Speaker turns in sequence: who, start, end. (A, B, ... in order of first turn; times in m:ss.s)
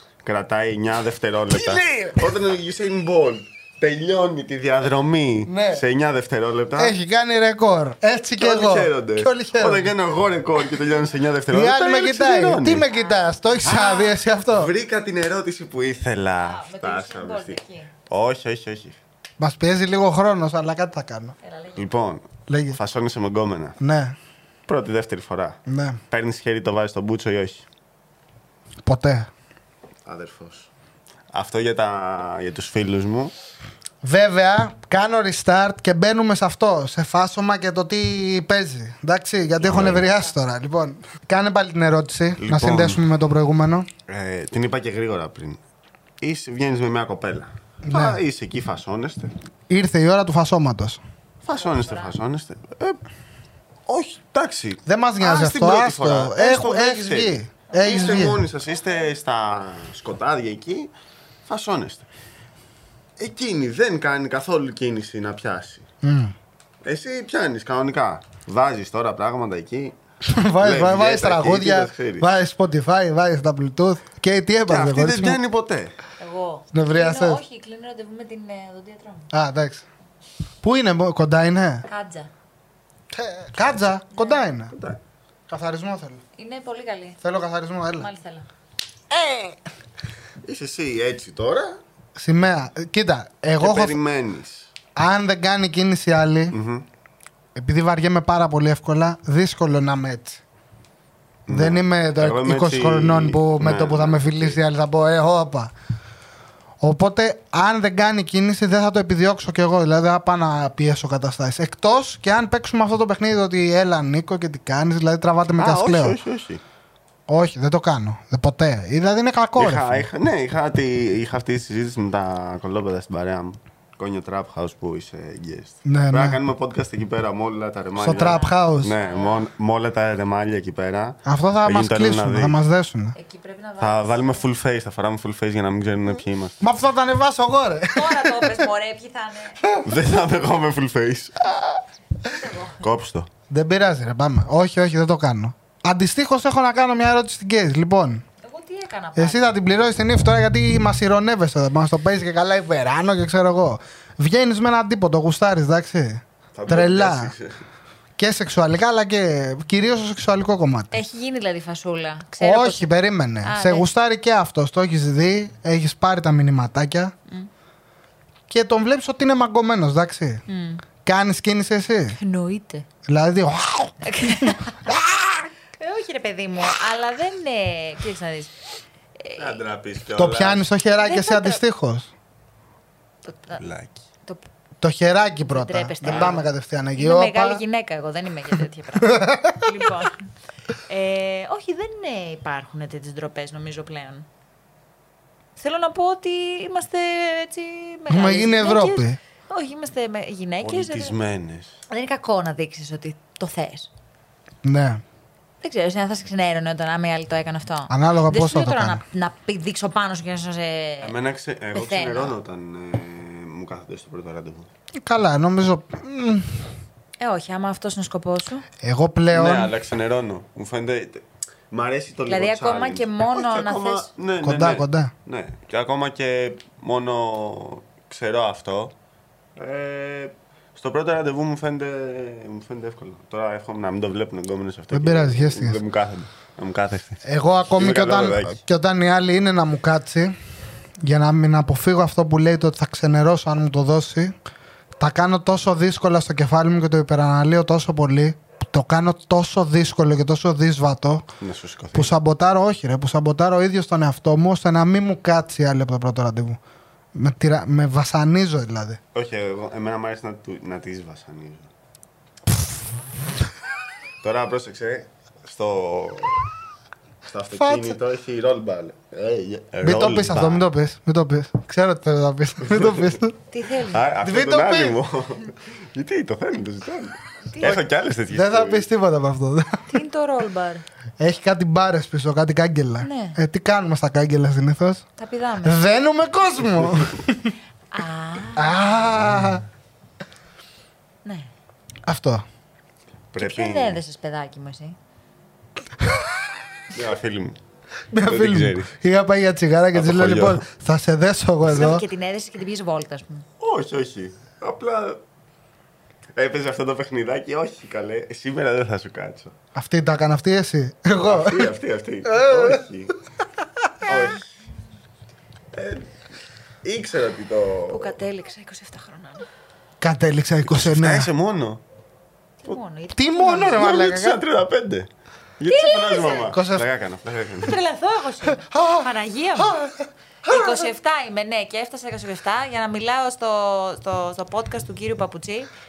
0:00.2-0:07.0 A
0:01.5-0:02.3 B
0:05.5-0:05.8 B
0:06.8-0:09.9 B
0:08.4-0:12.8 A
0:11.5-0:14.7 B
0:12.9-0:14.1 C
0:13.7-0:13.9 A
0:14.4-0:19.0 A
0:16.4-0:17.9 C
0:19.4-0:21.3 B
0:21.4-0:21.9 C
0:21.8-0:23.8 A
0:22.5-0:22.8 B
0:23.8-0:24.1 B
0:24.7-0:27.7 A
0:25.7-0:26.0 B
0:28.8-0:29.3 B
0:30.0-0:30.7 A
0:31.3-0:33.3 A
0:34.0-0:43.9 B
0:39.6-0:40.1 A
0:39.8-0:40.3 C
0:42.4-0:43.0 A
0:44.1-0:45.6 A
0:46.2-0:49.3 A
0:47.8-0:48.2 B
0:49.7-0:51.0 B
0:51.4-0:53.0 A
0:51.5-0:52.2 C
0:53.8-1:00.9 A
0:54.8-0:58.4 B
0:57.7-0:58.4 C
1:01.4-1:02.1 A
1:03.2-1:05.8 A
1:06.0-1:06.3 B
1:06.8-1:10.0 A
1:10.2-1:15.4 B
1:10.5-1:12.3 A
1:14.7-1:15.9 A
1:16.2-1:19.3 C
1:16.7-1:17.4 B
1:19.3-1:19.8 B
1:20.6-1:21.8 B
1:21.9-1:22.3 C
1:23.1-1:24.7 B
1:24.1-1:24.4 C
1:24.7-1:25.0 A
1:25.5-1:26.2 B
1:26.4-1:27.2 C
1:27.2-1:28.1 B
1:28.0-1:28.5 C
1:29.1-1:29.6 B
1:30.4-1:31.8 A
1:32.2-1:34.0 B
1:33.6-1:34.7 A
1:35.0-1:36.6 B
1:36.5-1:36.9 A
1:37.6-1:40.4 B
1:41.5-1:44.6 A
1:41.5-1:45.7 B
1:46.8-1:56.2 B
1:55.6-1:56.6 A
1:57.3-2:00.0 B
1:59.6-2:12.6 A
2:05.8-2:06.4 B
2:08.0-2:08.9 B
2:08.0-2:09.4 C
2:11.2-2:13.1 B
2:13.1-2:14.4 C
2:13.8-2:16.6 A
2:16.6-2:18.6 B
2:17.9-2:19.6 C
2:19.6-2:19.9 B
2:19.8-2:21.5 A
2:22.3-2:22.8 C
2:22.8-2:23.3 A
2:23.5-2:28.2 B
2:28.4-2:29.6 C
2:29.2-2:37.3 B
2:36.5-2:37.6 A
2:38.2-2:41.0 B
2:40.9-2:42.9 C
2:42.4-2:47.1 B
2:43.4-2:43.9 C
2:48.5-2:50.4 B
2:50.5-2:50.8 C
2:51.0-2:52.2 B
2:52.2-2:52.9 C
2:53.1-2:55.4 B
2:54.0-2:55.0 C
2:55.8-2:58.5 C
2:59.2-2:59.6 C
2:59.4-3:00.6 A
3:00.1-3:02.1 B
3:01.0-3:01.6 C
3:03.2-3:03.6 C
3:03.5-3:04.0 A
3:04.8-3:07.6 B
3:05.5-3:10.3 C
3:06.0-3:06.4 A
3:09.0-3:09.7 B
3:10.8-3:14.3 C
3:15.6-3:21.1 C
3:18.1-3:19.2 B
3:20.6-3:21.8 A
3:21.9-3:23.9 C
3:24.6-3:25.0 B
3:25.6-3:31.1 C
3:27.9-3:29.0 B
3:31.0-3:34.7 A
3:31.7-3:32.4 C
3:35.0-3:36.6 B
3:37.2-3:38.6 C
3:38.8-3:39.7 B
3:39.3-3:48.9 A
3:42.3-3:44.1 C
3:44.4-3:45.1 B
3:49.6-3:58.6 A
3:54.9-3:55.8 B
3:57.2-4:00.4 B
4:01.0-4:04.3 B
4:05.0-4:11.3 B
4:11.4-4:12.1 A
4:11.9-4:16.6 B
4:17.1-4:19.0 B
4:19.1-4:21.7 A
4:24.2-4:26.5 A
4:27.3-4:30.7 A
4:27.5-4:28.0 B
4:29.8-4:33.4 B
4:32.6-4:33.2 A
4:33.5-4:34.1 C
4:33.8-4:38.8 A
4:34.2-4:35.0 B
4:37.5-4:37.8 C
4:38.3-4:39.8 B
4:39.9-4:40.8 C
4:41.2-4:45.0 B
4:43.0-4:43.4 C
4:45.2-4:45.9 C
4:45.6-4:47.5 B
4:46.8-4:47.1 A
4:47.9-4:48.9 C
4:48.6-4:49.6 B
4:49.2-4:49.6 A
4:51.2-4:51.5 C
4:52.0-4:52.4 B
4:53.3-4:54.0 A
4:53.4-4:55.0 C
4:56.9-4:57.6 A
4:58.1-5:02.0 B
4:58.2-4:58.9 A
4:59.9-5:00.6 A
5:01.6-5:03.4 C
5:03.6-5:05.2 A
5:06.3-5:09.5 A
5:09.7-5:11.7 B
5:11.2-5:13.1 A
5:12.3-5:12.8 B
5:14.0-5:14.4 A
5:15.7-5:16.2 A
5:16.8-5:18.2 A
5:17.9-5:19.5 C
5:20.0-5:21.3 B
5:20.6-5:21.8 A
5:22.6-5:23.9 C
5:23.1-5:24.4 B
5:23.6-5:27.8 A
5:25.7-5:26.5 C
5:26.5-5:26.8 B
5:27.6-5:29.8 C
5:28.5-5:29.1 B
5:29.6-5:30.7 B
5:30.5-5:35.7 C